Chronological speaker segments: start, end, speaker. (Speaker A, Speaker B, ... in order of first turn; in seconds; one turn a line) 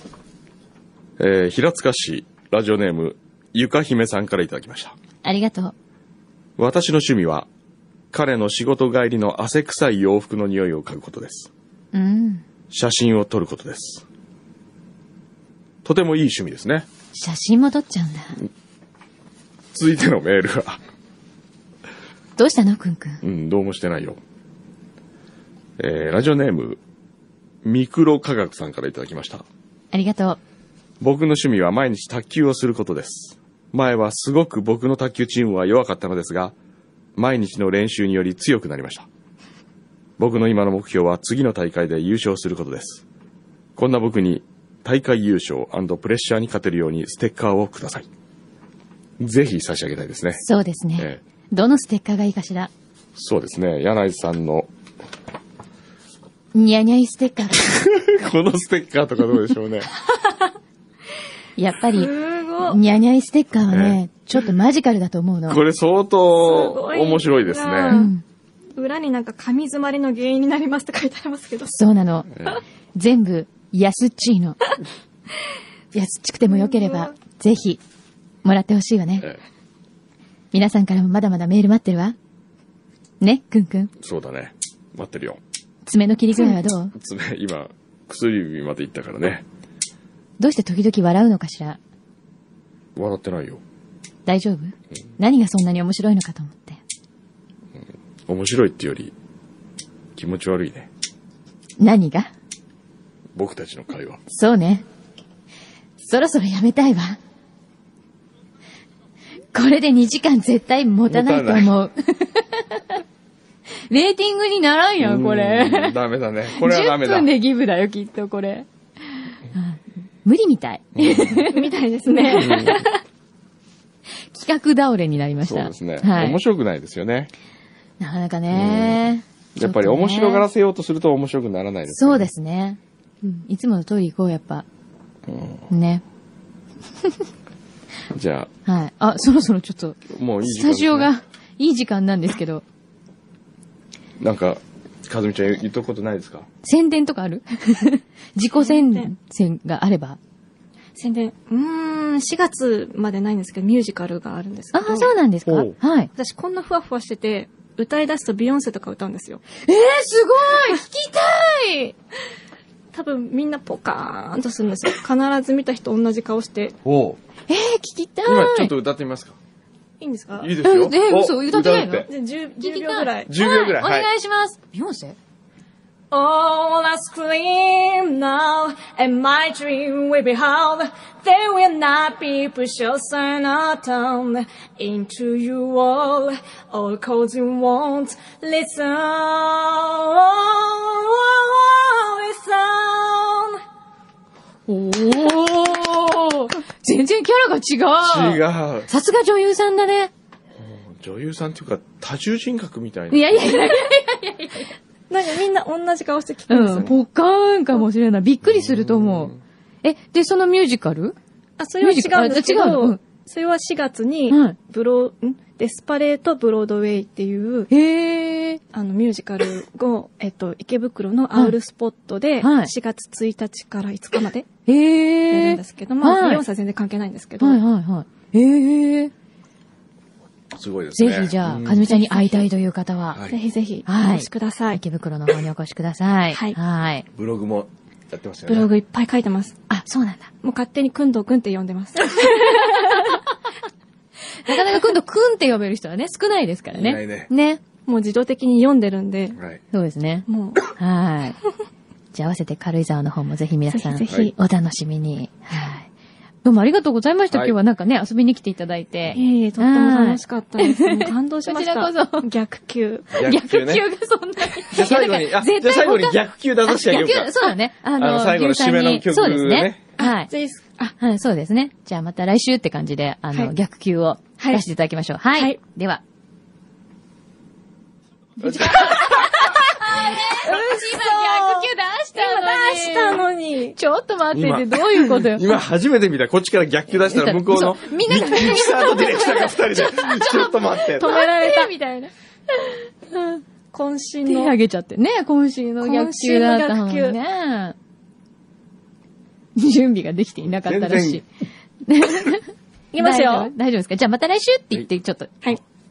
Speaker A: 1.2-5.0
Speaker B: 5.2-5.8
Speaker A: 6.6-7.5
Speaker A: 8.1-11.5
Speaker B: 11.9-12.4
Speaker A: 12.7-14.1
Speaker A: 15.8-16.9
Speaker B: 17.1-18.4
Speaker A: 19.7-20.8
Speaker B: 22.4-23.2
Speaker A: 23.2-24.2
Speaker A: 25.8-26.8
Speaker A: 27.6-29.4
Speaker B: 29.9-30.4
Speaker A: 31.0-36.5
Speaker A: 37.2-39.1
Speaker A: 40.2-43.0
Speaker A: 43.8-48.1
Speaker A: 49.2-50.4
Speaker B: 50.4-52.7
Speaker A: 53.1-54.7
Speaker B: 56.5-57.6
Speaker A: 57.6-59.9
Speaker B: 61.6-65.6
Speaker C: 62.0-62.8
Speaker A: 63.7-64.0
Speaker A: 65.5-68.0
Speaker C: 66.4-68.1
Speaker B: 67.9-68.2
Speaker C: 68.8-71.8
Speaker B: 71.7-72.3
Speaker A: 72.3-72.6
Speaker B: 73.0-74.6
Speaker B: 75.9-77.8
Speaker C: 76.5-77.1
Speaker B: 78.4-79.3
Speaker B: 80.5-82.2
Speaker B: 83.2-83.9
Speaker A: 84.0-85.4
Speaker B: 85.9-86.9
Speaker A: 86.9-89.5
Speaker B: 90.4-91.8
Speaker A: 93.0-93.6
Speaker B: 94.3-96.8
Speaker A: 97.8-99.1
Speaker A: 100.2-100.9
Speaker B: 101.8-102.3
Speaker A: 103.3-104.2
Speaker B: 104.3-104.9
Speaker B: 106.0-107.2
Speaker B: 109.5-113.0
Speaker A: 111.1-111.7
Speaker B: 113.9-116.0
Speaker A: 115.0-117.3
Speaker B: 116.5-118.7
Speaker B: 119.5-122.7
Speaker A: 121.0-121.4
Speaker C: 121.5-123.0
Speaker A: 122.4-122.8
Speaker B: 124.3-126.4
Speaker A: 125.4-127.3
Speaker B: 128.0-130.5
Speaker A: 128.5-129.1
Speaker A: 129.6-132.3
Speaker B: 131.9-134.7
Speaker A: 135.3-135.6
Speaker B: 135.7-136.0
Speaker A: 138.1-138.5
Speaker B: 138.7-142.6
Speaker A: 140.1-141.1
Speaker A: 144.2-146.5
Speaker B: 146.6-150.2
Speaker C: 148.6-149.1
Speaker C: 151.0-155.1
Speaker B: 154.7-156.1
Speaker A: 155.5-155.7
Speaker C: 156.2-159.4
Speaker B: 159.7-162.0
Speaker C: 162.9-166.8
Speaker A: 166.8-167.2
Speaker B: 167.5-168.7
Speaker A: 168.3-169.4
Speaker C: 170.0-170.5
Speaker A: 170.4-172.1
Speaker B: 170.6-172.1
Speaker C: 172.0-173.3
Speaker B: 172.6-175.2
Speaker A: 173.3-174.1
Speaker C: 176.1-193.6
Speaker B: 194.7-200.1
Speaker A: 198.0-198.9
Speaker A: 200.6-203.7
Speaker B: 203.1-204.7
Speaker C: 205.1-206.9
Speaker B: 206.5-211.2
Speaker A: 208.5-209.4
Speaker C: 211.6-217.7
Speaker B: 211.8-213.0
Speaker B: 214.3-214.6
Speaker B: 217.7-218.6
Speaker C: 218.7-224.5
Speaker B: 222.4-222.7
Speaker B: 224.7-226.4
Speaker C: 225.3-227.6
Speaker B: 227.4-229.1
Speaker A: 230.5-231.9
Speaker B: 231.0-233.2
Speaker C: 231.8-232.5
Speaker C: 233.3-234.8
Speaker B: 233.9-237.1
Speaker A: 237.2-238.7
Speaker C: 238.5-239.6
Speaker B: 239.7-240.3
Speaker C: 240.4-243.2
Speaker B: 244.4-247.6
Speaker A: 246.7-247.3
Speaker C: 247.9-249.4
Speaker A: 249.3-249.6
Speaker B: 249.7-251.4
Speaker C: 250.3-250.6
Speaker B: 252.1-255.9
Speaker C: 253.7-254.3
Speaker B: 256.4-262.3
Speaker C: 259.1-263.2
Speaker A: 263.1-263.8
Speaker B: 263.2-270.3
Speaker A: 264.7-269.9
Speaker C: 270.0-270.9
Speaker B: 271.0-276.0
Speaker C: 274.4-274.6
Speaker B: 278.4-283.2
Speaker A: 278.4-279.5
Speaker C: 279.1-283.8
Speaker B: 283.8-285.5
Speaker A: 284.3-291.1
Speaker B: 287.1-293.4
Speaker C: 288.2-289.0
Speaker C: 290.9-291.7
Speaker C: 293.7-294.6
Speaker B: 294.3-297.8
Speaker C: 295.8-297.2
Speaker B: 299.6-301.3
Speaker A: 300.6-301.2
Speaker B: 301.8-305.3
Speaker C: 302.9-303.5